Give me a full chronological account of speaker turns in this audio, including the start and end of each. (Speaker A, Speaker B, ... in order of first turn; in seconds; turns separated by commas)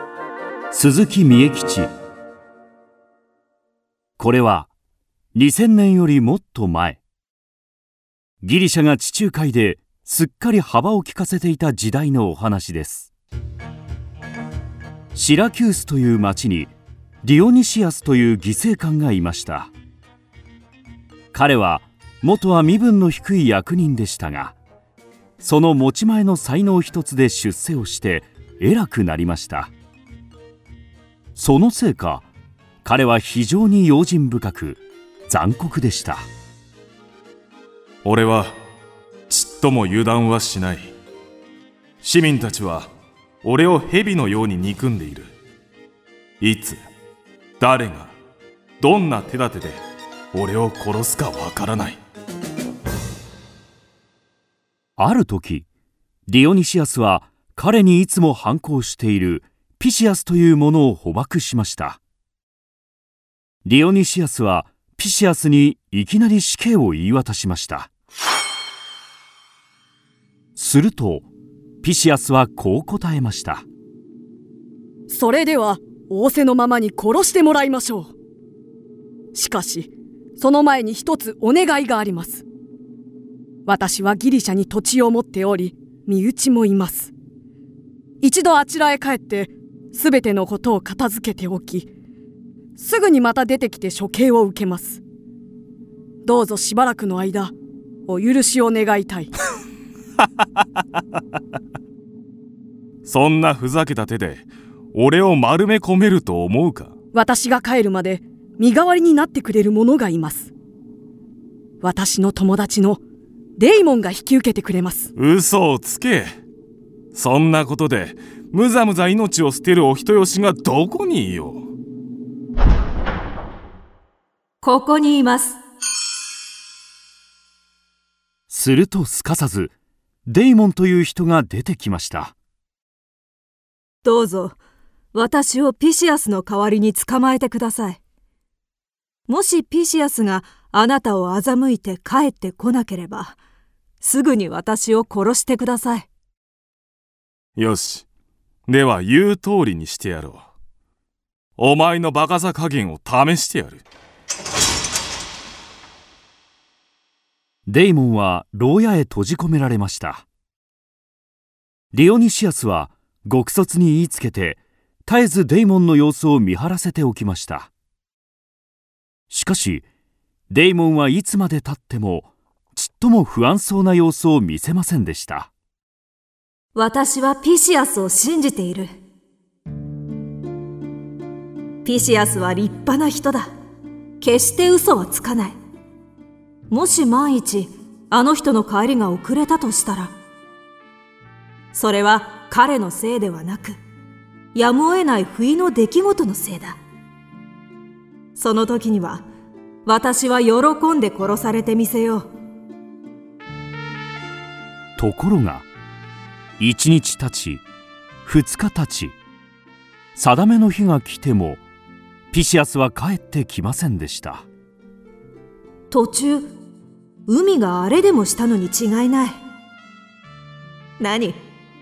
Speaker A: 0.7-1.9, Speaker A: 4.2-4.7, Speaker A: 5.3-7.0, Speaker A: 8.4-13.1, Speaker A: 15.1-16.7, Speaker A: 17.2-19.7, Speaker A: 21.3-24.6, Speaker A: 25.4-29.7, Speaker A: 31.3-32.3, Speaker A: 32.8-36.2, Speaker B: 38.0-38.5, Speaker B: 39.3-40.9, Speaker B: 42.0-42.9, Speaker B: 43.4-45.3, Speaker B: 46.4-46.8, Speaker B: 47.6-48.1, Speaker B: 48.8-49.8, Speaker B: 50.3-52.0, Speaker A: 55.0-55.6, Speaker A: 56.3-62.0, Speaker A: 63.6-67.9, Speaker A: 70.5-71.3, Speaker A: 71.8-73.6, Speaker C: 75.1-78.1, Speaker C: 79.3-82.4, Speaker C: 83.7-87.1, Speaker C: 88.2-91.9, Speaker C: 92.8-95.0, Speaker C: 96.2-97.5, Speaker C: 98.1-99.3, Speaker B: 103.0-106.9, Speaker C: 107.1-110.5, Speaker C: 111.8-113.0, Speaker C: 113.6-115.1, Speaker B: 115.2-116.3, Speaker B: 117.1-121.7, Speaker D: 124.6-125.6, Speaker A: 128.5-129.7, Speaker A: 130.3-132.3, Speaker D: 134.0-134.6, Speaker D: 135.1-138.0, Speaker D: 139.3-143.4, Speaker D: 144.0-146.1, Speaker B: 147.6-148.1, Speaker B: 148.7-150.4, Speaker B: 151.6-153.8, Speaker A: 157.7-160.2, Speaker A: 161.9-167.7, Speaker A: 169.3-169.8, Speaker A: 170.5-175.5, Speaker D: 176.7-178.9, Speaker D: 181.8-183.5, Speaker D: 184.2-185.6, Speaker D: 186.7-190.1, Speaker D: 191.7-193.8, Speaker D: 194.5-196.8, Speaker D: 198.3-199.2, Speaker D: 199.8-202.3, Speaker A: 205.0-205.7, Speaker A: 206.6-207.6, Speaker A: 208.2-209.1, Speaker A: 210.1-211.6, Speaker A: 212.3-214.4, Speaker D: 215.9-216.5, Speaker D: 217.3-219.4, Speaker D: 221.0-221.4